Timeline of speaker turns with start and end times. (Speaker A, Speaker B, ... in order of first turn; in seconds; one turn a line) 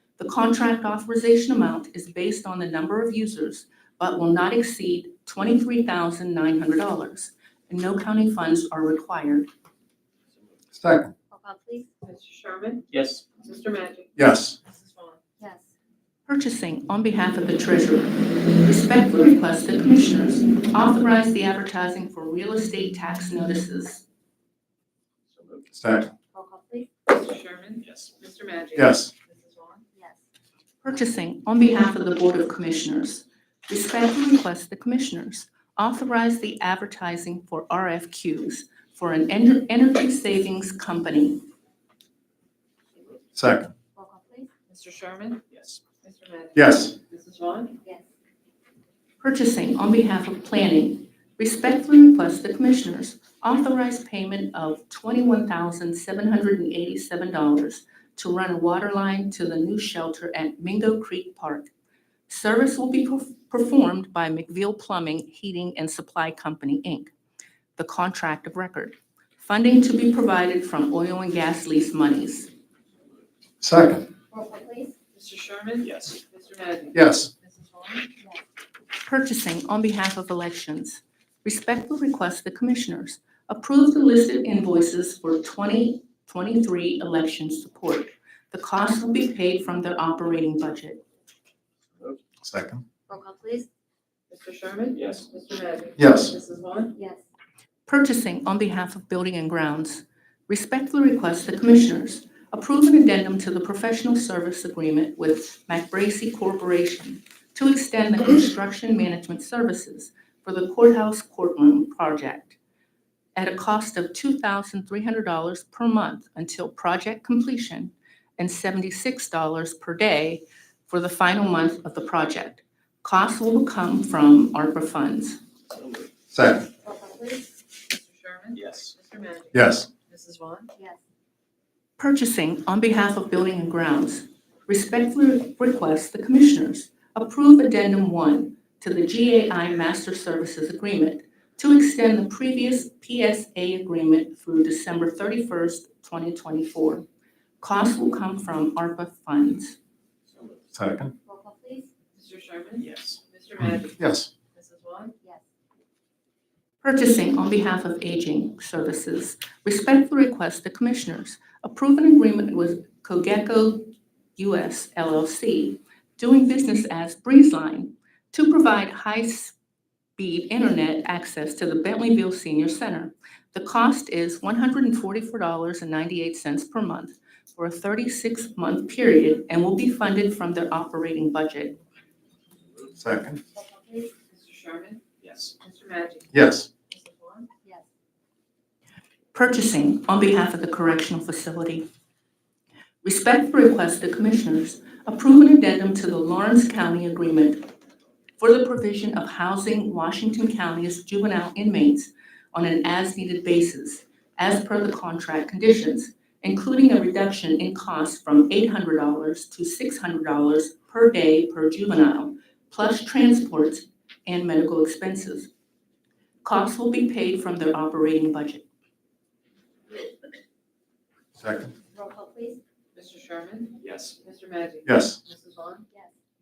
Speaker A: 0.2-9.5
Speaker B: 10.7-11.1
Speaker C: 11.3-11.9
Speaker D: 12.0-12.8
Speaker E: 12.9-13.2
Speaker D: 13.4-15.2
Speaker B: 14.2-14.6
Speaker C: 15.4-15.7
Speaker A: 16.3-24.0
Speaker E: 25.3-25.6
Speaker B: 25.7-26.1
Speaker C: 26.3-26.9
Speaker D: 27.1-29.8
Speaker E: 27.8-28.1
Speaker B: 28.8-29.1
Speaker C: 29.9-30.2
Speaker A: 30.8-41.4
Speaker B: 43.3-43.7
Speaker C: 43.9-44.5
Speaker D: 44.7-45.4
Speaker E: 45.5-45.8
Speaker D: 46.0-47.8
Speaker B: 46.5-46.9
Speaker C: 47.8-48.1
Speaker A: 49.2-61.7
Speaker A: 62.3-67.1
Speaker A: 67.8-72.5
Speaker B: 73.6-74.1
Speaker C: 74.3-74.9
Speaker D: 75.1-78.1
Speaker E: 75.8-76.2
Speaker B: 76.9-77.3
Speaker A: 79.0-91.0
Speaker B: 92.4-92.8
Speaker C: 93.1-93.7
Speaker D: 94.3-96.9
Speaker E: 94.9-95.3
Speaker B: 96.0-96.3
Speaker C: 97.0-97.2
Speaker A: 97.8-112.6
Speaker A: 113.3-125.4
Speaker E: 125.7-126.1
Speaker B: 126.3-126.7
Speaker C: 126.8-127.5
Speaker D: 127.9-130.7
Speaker E: 128.5-128.9
Speaker B: 129.5-129.9
Speaker A: 132.0-147.1
Speaker A: 147.6-149.8
Speaker E: 150.3-150.6
Speaker B: 150.7-151.1
Speaker C: 151.2-151.9
Speaker D: 152.1-154.0
Speaker E: 152.8-153.2
Speaker B: 153.6-154.3
Speaker D: 154.5-155.1
Speaker A: 156.8-169.6
Speaker A: 170.2-181.8
Speaker B: 182.9-183.4
Speaker C: 183.5-184.1
Speaker D: 184.3-185.0
Speaker E: 185.2-185.5
Speaker D: 185.6-186.3
Speaker B: 186.3-186.7
Speaker D: 186.9-187.5
Speaker A: 189.3-191.9
Speaker A: 193.0-197.7
Speaker A: 198.4-215.5
Speaker A: 216.4-218.7
Speaker B: 221.4-221.7
Speaker C: 221.9-222.6
Speaker D: 222.9-225.8
Speaker E: 223.8-224.2
Speaker B: 224.8-225.2